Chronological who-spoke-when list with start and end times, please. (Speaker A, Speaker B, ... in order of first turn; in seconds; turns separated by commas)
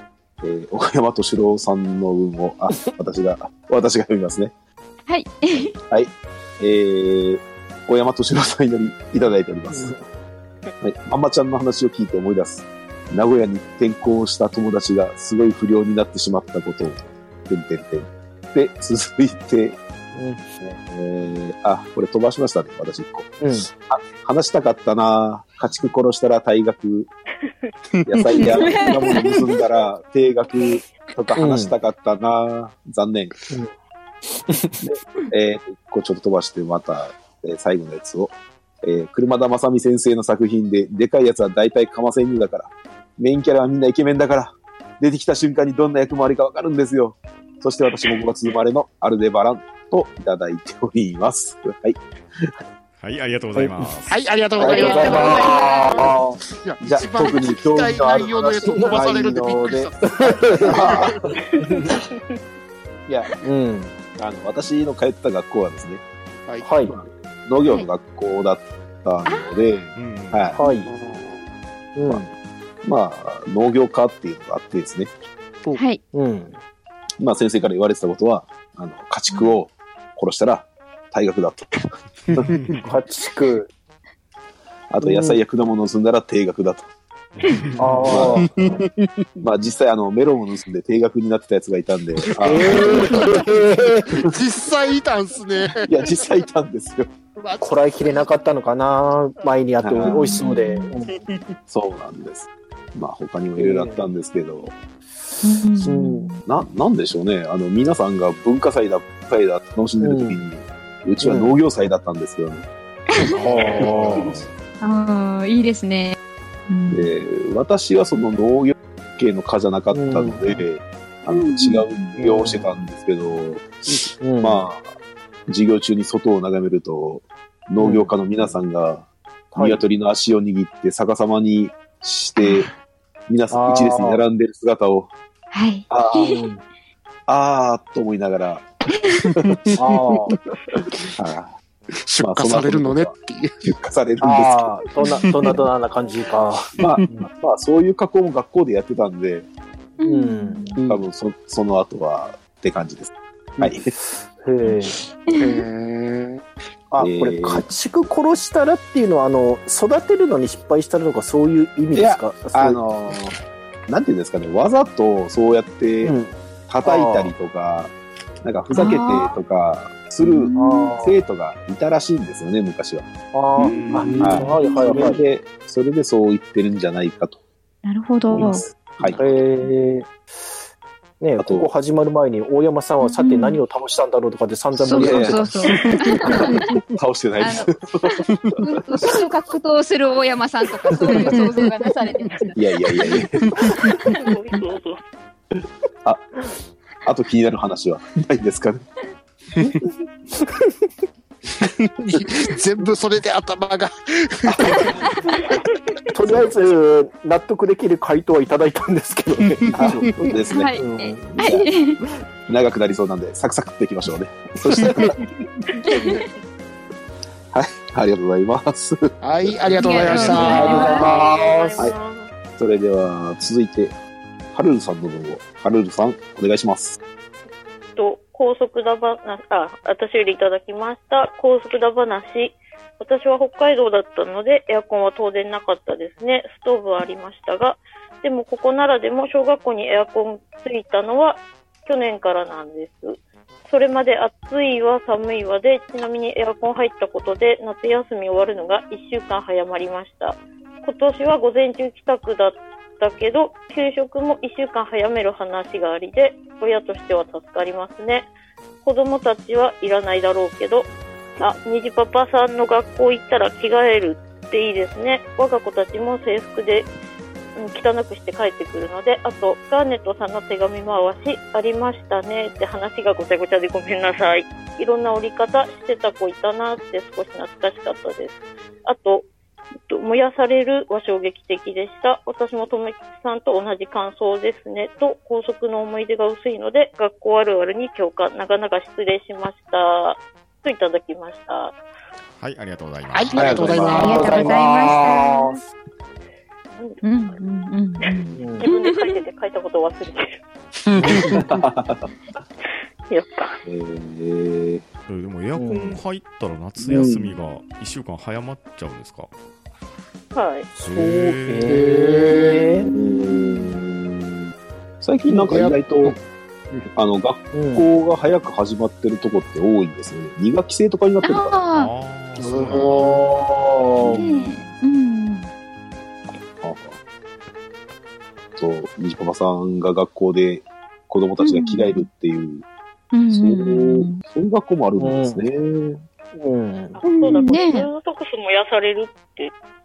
Speaker A: 0.4-4.5, Speaker B: 5.1-5.7, Speaker A: 5.8-9.9, Speaker C: 9.7-10.0, Speaker A: 10.8-19.8, Speaker C: 20.1-20.4, Speaker A: 20.6-27.1, Speaker C: 23.4-23.7, Speaker D: 28.0-28.5, Speaker A: 28.1-33.3, Speaker B: 28.5-29.5, Speaker C: 31.4-31.7, Speaker A: 34.8-52.0, Speaker E: 53.0-54.2, Speaker C: 53.5-53.9, Speaker D: 54.1-61.4, Speaker A: 54.6-55.5, Speaker B: 54.6-55.7, Speaker C: 55.0-56.4, Speaker A: 56.8-59.9, Speaker C: 58.7-59.0, Speaker C: 60.2-61.0, Speaker A: 60.6-61.3, Speaker A: 63.1-63.3, Speaker C: 63.4-64.0, Speaker A: 64.2-66.0, Speaker C: 66.6-66.9, Speaker A: 66.9-70.6, Speaker B: 69.2-69.7, Speaker E: 69.9-70.6, Speaker C: 70.6-70.9, Speaker D: 70.6-71.4, Speaker C: 72.0-72.3, Speaker A: 72.8-75.1, Speaker B: 75.7-76.0, Speaker C: 76.1-76.6, Speaker A: 77.2-82.4, Speaker E: 82.5-82.9, Speaker C: 82.8-83.7, Speaker A: 84.9-86.9, Speaker C: 85.0-85.4, Speaker E: 87.3-88.1, Speaker C: 87.8-88.5, Speaker D: 88.0-88.9, Speaker A: 88.0-88.5, Speaker A: 89.4-93.1, Speaker D: 92.2-96.3, Speaker C: 92.4-94.0, Speaker A: 95.8-97.1, Speaker D: 97.3-98.3, Speaker C: 97.6-101.1, Speaker A: 99.8-100.4, Speaker B: 100.1-100.9, Speaker A: 101.7-104.7, Speaker C: 103.6-104.0, Speaker B: 105.4-106.4, Speaker C: 105.7-106.3, Speaker A: 106.4-112.7, Speaker C: 110.0-110.4, Speaker C: 111.2-111.6, Speaker B: 113.1-113.8, Speaker E: 113.3-114.5, Speaker C: 113.4-114.4, Speaker A: 113.8-114.3, Speaker B: 114.8-116.2, Speaker B: 116.7-117.1, Speaker A: 116.9-124.9, Speaker C: 119.9-120.6, Speaker B: 121.3-122.1, Speaker C: 122.2-122.7, Speaker C: 124.2-124.6, Speaker A: 125.5-132.7, Speaker C: 127.8-128.1, Speaker C: 129.5-129.8, Speaker B: 132.4-132.7, Speaker A: 133.3-135.1, Speaker C: 133.5-134.2, Speaker B: 135.5-136.4, Speaker A: 135.9-136.3, Speaker C: 136.1-136.6, Speaker A: 137.3-138.7, Speaker D: 139.4-139.8, Speaker C: 139.8-140.3, Speaker A: 141.1-141.5, Speaker D: 142.1-143.7, Speaker A: 142.2-144.9, Speaker C: 144.2-147.3, Speaker D: 145.1-145.6, Speaker A: 146.8-149.5, Speaker D: 146.8-147.1, Speaker B: 150.0-150.8, Speaker C: 150.0-150.7, Speaker D: 150.7-151.0, Speaker A: 150.9-153.9, Speaker C: 153.6-155.0, Speaker B: 154.6-155.6, Speaker D: 155.4-156.4, Speaker A: 156.9-157.6, Speaker C: 156.9-162.8, Speaker A: 161.9-163.3, Speaker A: 163.9-166.2, Speaker C: 166.0-167.3, Speaker A: 166.7-173.1, Speaker B: 168.7-169.4, Speaker B: 170.2-171.0, Speaker C: 170.6-171.2, Speaker C: 173.3-175.2, Speaker E: 173.6-174.3, Speaker D: 173.8-175.2, Speaker A: 174.1-177.4, Speaker B: 177.8-178.7, Speaker A: 178.3-179.2, Speaker C: 178.4-180.5, Speaker C: 181.2-186.3, Speaker A: 181.4-181.7, Speaker B: 183.0-183.6, Speaker B: 184.7-186.7, Speaker A: 184.9-185.6, Speaker A: 186.3-188.2, Speaker B: 187.4-192.6, Speaker D: 190.9-191.6, Speaker A: 192.6-193.5, Speaker F: 194.2-195.0, Speaker A: 197.1-198.8, Speaker D: 201.6-205.0, Speaker C: 206.1-210.0, Speaker D: 209.6-210.3, Speaker A: 209.7-210.7, Speaker B: 210.5-212.0, Speaker C: 210.8-211.4, Speaker A: 211.3-211.7, Speaker A: 212.5-215.2, Speaker B: 215.9-216.2, Speaker A: 217.5-220.7, Speaker D: 219.2-221.9, Speaker B: 219.8-221.1, Speaker C: 220.4-221.0, Speaker F: 220.4-222.3, Speaker A: 222.6-223.9, Speaker A: 224.5-227.0, Speaker F: 228.0-258.3, Speaker F: 258.8-266.9, Speaker F: 267.6-279.2, Speaker F: 279.9-291.7, Speaker E: 292.4-293.9, Speaker D: 293.1-294.9, Speaker A: 293.3-294.4, Speaker B: 293.9-295.6, Speaker C: 294.0-295.4, Speaker F: 296.8-297.4, Speaker B: 297.0-299.2, Speaker F: 298.0-300.4, Speaker C: 298.4-298.6, Speaker D: 300.9-301.6, Speaker A: 301.3-302.1, Speaker F: 303.1-303.6, Speaker A: 303.6-304.8, Speaker E: 305.1-309.3, Speaker C: 305.5-306.0, Speaker A: 306.8-307.3, Speaker F: 310.3-310.7, Speaker C: 310.8-312.9, Speaker E: 310.8-311.8, Speaker D: 311.7-312.7, Speaker A: 312.9-314.4, Speaker B: 313.4-313.6, Speaker A: 315.0-316.1, Speaker D: 315.2-316.2, Speaker A: 316.9-321.6, Speaker C: 317.5-317.9, Speaker B: 321.2-321.9, Speaker E: 321.7-323.2, Speaker D: 322.4-323.2, Speaker C: 322.9-324.3, Speaker B: 324.1-325.5, Speaker A: 326.6-327.0, Speaker A: 328.6-332.6, Speaker B: 331.4-332.1, Speaker B: 333.1-334.2, Speaker A: 333.3-336.0, Speaker C: 335.0-335.4, Speaker C: 336.3-337.0, Speaker F: 337.0-339.5, Speaker B: 337.1-337.9